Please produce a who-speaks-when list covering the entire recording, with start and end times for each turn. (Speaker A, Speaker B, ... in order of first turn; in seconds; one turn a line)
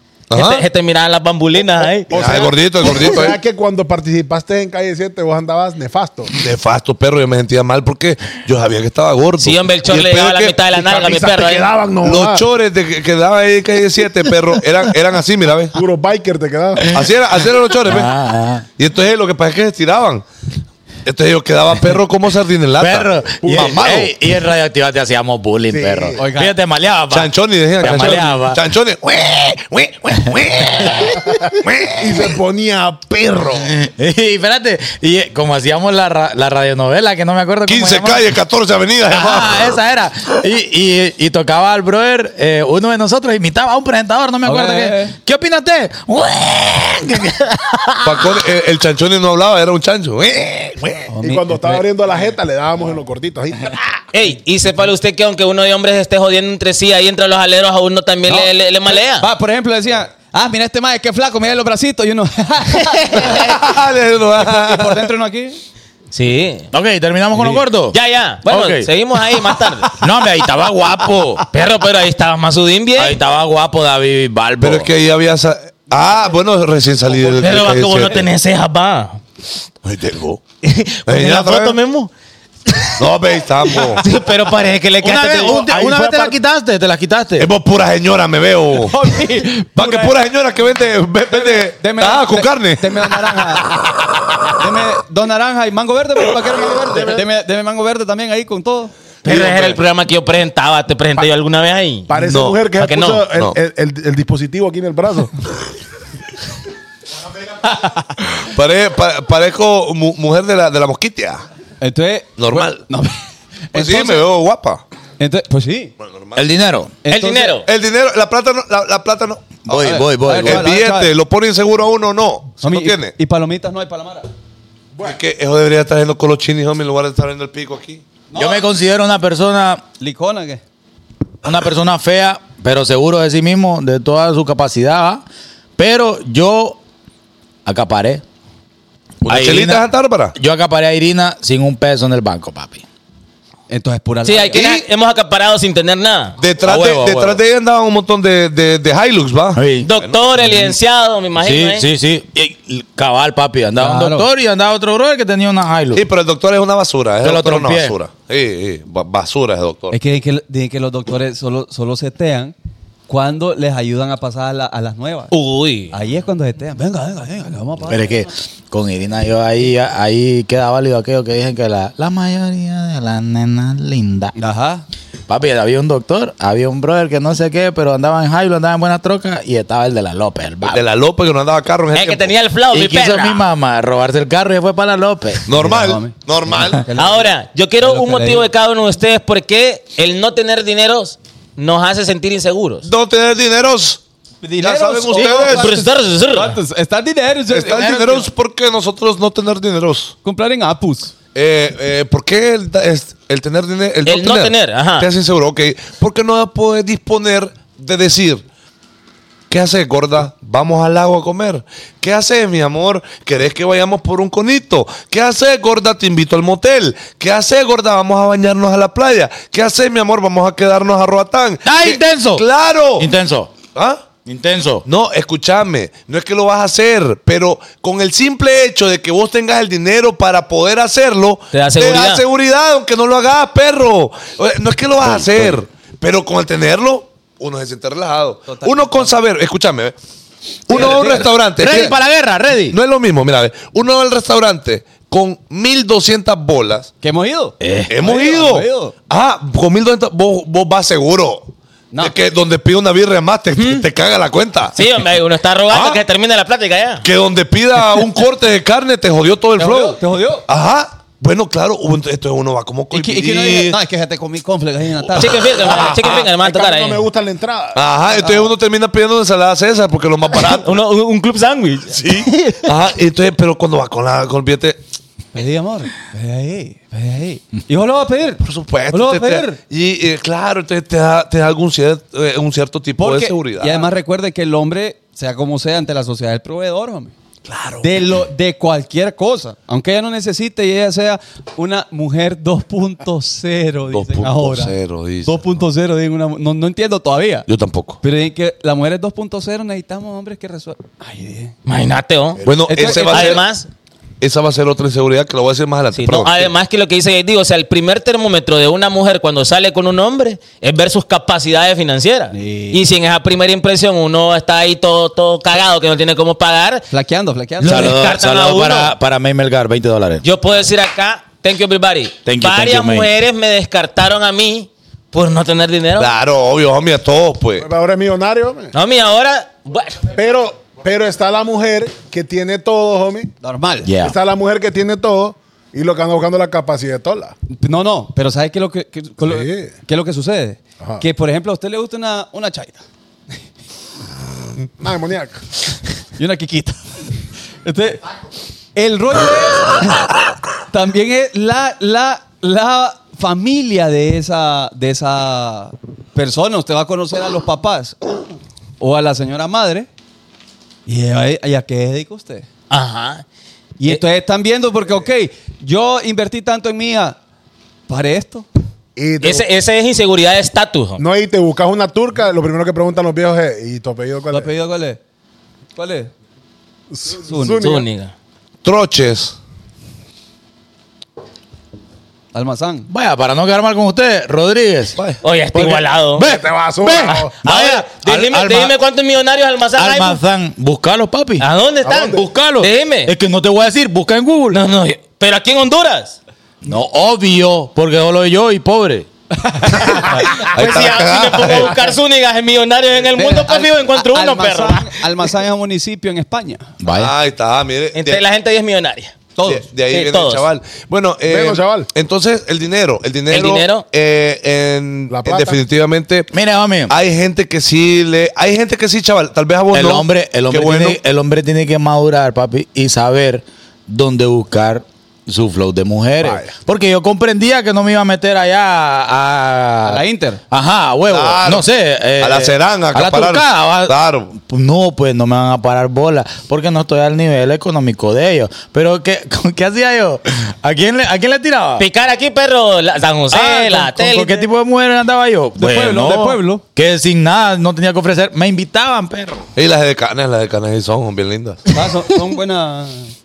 Speaker A: 0.3-0.7
Speaker B: 0.3-2.5
Speaker C: 1.8-6.3
Speaker A: 2.1-3.4
Speaker A: 6.3-10.6
Speaker B: 9.4-11.7
Speaker C: 10.8-12.5
Speaker A: 12.0-15.8
Speaker C: 15.7-17.0
Speaker A: 16.9-18.1
Speaker D: 17.9-18.7
Speaker A: 18.8-20.2
Speaker A: 21.1-24.1
Speaker D: 22.8-28.6
Speaker C: 23.4-23.9
Speaker C: 25.7-26.2
Speaker E: 26.2-26.6
Speaker A: 27.1-32.3
Speaker D: 30.3-31.2
Speaker C: 32.0-33.7
Speaker D: 33.6-38.3
Speaker A: 37.7-39.7
Speaker D: 39.1-48.4
Speaker E: 44.5-45.1
Speaker A: 48.0-51.1
Speaker E: 51.1-51.9
Speaker C: 51.2-53.8
Speaker B: 54.1-59.3
Speaker E: 58.3-63.6
Speaker B: 62.8-63.5
Speaker A: 63.3-65.1
Speaker E: 64.4-65.6
Speaker B: 66.1-66.7
Speaker D: 66.7-68.9
Speaker B: 67.9-69.9
Speaker D: 70.0-71.4
Speaker B: 71.5-73.2
Speaker D: 73.0-74.9
Speaker A: 74.6-78.3
Speaker B: 77.3-79.2
Speaker A: 79.8-80.4
Speaker B: 80.6-82.1
Speaker A: 81.1-81.8
Speaker B: 82.7-82.9
Speaker A: 83.0-84.0
Speaker B: 83.7-85.7
Speaker D: 85.0-87.5
Speaker C: 85.5-86.4
Speaker A: 87.4-89.0
Speaker E: 88.7-90.2
Speaker A: 89.8-94.5
Speaker E: 91.3-93.7
Speaker E: 94.6-98.9
Speaker A: 99.2-99.8
Speaker B: 99.2-102.1
Speaker C: 102.1-105.3
Speaker A: 102.2-102.7
Speaker B: 102.8-103.3
Speaker A: 103.3-103.6
Speaker E: 107.7-108.2
Speaker A: 108.4-111.4
Speaker E: 111.8-113.2
Speaker A: 112.4-112.8
Speaker E: 113.7-114.3
Speaker A: 113.7-114.8
Speaker E: 115.2-115.9
Speaker A: 116.0-116.5
Speaker D: 116.3-116.9
Speaker E: 117.0-117.6
Speaker B: 117.1-117.7
Speaker A: 117.6-123.2
Speaker D: 119.7-120.7
Speaker E: 119.8-121.1
Speaker E: 122.6-124.3
Speaker A: 125.0-128.0
Speaker E: 128.3-128.7
Speaker D: 128.3-129.8
Speaker E: 130.0-130.6
Speaker D: 131.4-135.2
Speaker D: 135.8-136.8
Speaker D: 137.7-138.2
Speaker A: 139.2-140.3
Speaker D: 139.2-139.8
Speaker D: 140.3-142.8
Speaker E: 143.7-144.6
Speaker B: 144.2-146.4
Speaker A: 144.5-144.8
Speaker A: 146.4-150.2
Speaker D: 146.6-147.4
Speaker D: 149.6-149.9
Speaker B: 149.8-151.9
Speaker D: 151.4-156.0
Speaker E: 153.8-154.3
Speaker A: 155.9-160.0
Speaker D: 157.2-158.0
Speaker E: 159.9-162.5
Speaker E: 163.1-165.3
Speaker B: 165.3-165.9
Speaker E: 165.9-168.2
Speaker D: 167.9-174.3
Speaker E: 174.4-174.8
Speaker D: 175.3-180.8
Speaker A: 180.7-182.3
Speaker B: 181.9-183.4
Speaker D: 182.7-185.4
Speaker A: 185.5-186.8
Speaker E: 185.6-187.3
Speaker B: 187.0-192.9
Speaker E: 187.8-188.5
Speaker A: 192.8-194.0
Speaker E: 194.4-198.3
Speaker A: 194.6-195.8
Speaker B: 195.1-196.6
Speaker A: 197.5-200.2
Speaker D: 197.7-198.2
Speaker E: 200.2-201.1
Speaker A: 201.3-208.4
Speaker B: 204.1-205.1
Speaker A: 209.5-223.1
Speaker D: 221.6-222.4
Speaker D: 223.0-223.6
Speaker A: 223.7-224.0
Speaker D: 224.3-224.8
Speaker A: 224.8-240.0
Speaker B: 231.5-232.2
Speaker D: 235.0-235.6
Speaker E: 238.5-239.2
Speaker A: 240.7-242.0
Speaker E: 240.7-241.3
Speaker D: 241.5-242.8
Speaker A: 242.7-246.9
Speaker E: 247.0-248.9
Speaker D: 247.6-247.9
Speaker A: 247.9-254.8
Speaker B: 253.6-253.8
Speaker B: 254.8-257.1
Speaker A: 255.7-256.0
Speaker A: 257.0-263.8
Speaker E: 259.6-260.5
Speaker E: 262.9-265.6
Speaker A: 265.1-266.2
Speaker B: 265.2-267.1
Speaker C: 265.7-267.9
Speaker A: 267.8-270.8
Speaker E: 268.2-268.5
Speaker B: 270.3-272.7
Speaker A: 272.6-274.8
Speaker E: 275.3-279.6
Speaker A: 278.4-283.9
Speaker E: 283.0-287.1
Speaker A: 287.5-287.9
Speaker E: 287.8-297.5
Speaker A: 293.9-295.6
Speaker A: 297.5-298.0
Speaker E: 298.0-301.5
Speaker B: 301.7-303.7
Speaker A: 302.4-303.4
Speaker E: 302.6-303.4
Speaker A: 304.2-306.5
Speaker B: 305.9-316.9
Speaker E: 312.3-312.8
Speaker E: 316.9-317.9
Speaker B: 317.6-318.9
Speaker D: 317.6-320.2
Speaker B: 320.2-326.1
Speaker D: 322.3-323.1
Speaker A: 326.0-327.7
Speaker C: 327.6-328.7
Speaker B: 328.7-330.1
Speaker C: 330.1-333.3
Speaker E: 333.4-333.9
Speaker D: 333.9-334.2
Speaker C: 334.0-337.4
Speaker E: 337.5-342.8
Speaker C: 339.2-339.7
Speaker C: 344.8-345.4
Speaker E: 346.2-346.8
Speaker E: 347.6-348.0
Speaker E: 348.8-350.2
Speaker E: 350.7-358.0
Speaker E: 358.8-359.9
Speaker E: 360.9-362.5
Speaker B: 362.7-363.2
Speaker E: 363.8-367.2
Speaker E: 367.9-368.5
Speaker C: 369.0-369.4
Speaker B: 369.2-371.0
Speaker C: 371.0-374.5
Speaker E: 374.3-375.0
Speaker E: 375.8-376.1
Speaker C: 376.9-377.9
Speaker E: 377.3-377.6
Speaker B: 377.6-378.1
Speaker A: 378.6-379.4
Speaker E: 382.3-382.9
Speaker D: 382.9-385.0
Speaker B: 385.2-386.3
Speaker D: 385.5-388.7
Speaker C: 386.2-387.3
Speaker B: 387.1-390.2
Speaker D: 389.8-391.5
Speaker B: 391.4-393.1
Speaker C: 391.9-392.2
Speaker D: 392.1-394.6
Speaker B: 394.5-396.2
Speaker D: 396.6-399.1
Speaker E: 399.5-400.3
Speaker B: 400.1-405.0
Speaker A: 400.4-401.8
Speaker E: 403.1-406.7
Speaker D: 406.8-407.1
Speaker A: 406.9-408.2
Speaker B: 407.9-409.2
Speaker E: 409.4-409.6
Speaker A: 409.4-416.3
Speaker B: 409.9-410.5
Speaker C: 411.3-411.9
Speaker B: 413.3-413.9
Speaker C: 415.1-415.6
Speaker D: 416.3-416.9
Speaker A: 416.9-421.0
Speaker D: 419.7-441.9
Speaker C: 426.2-426.5
Speaker E: 429.9-430.4
Speaker A: 431.1-431.7
Speaker A: 432.2-434.4
Speaker B: 441.8-444.5
Speaker D: 443.3-449.5
Speaker E: 445.6-446.6
Speaker A: 449.6-451.6
Speaker E: 451.7-453.1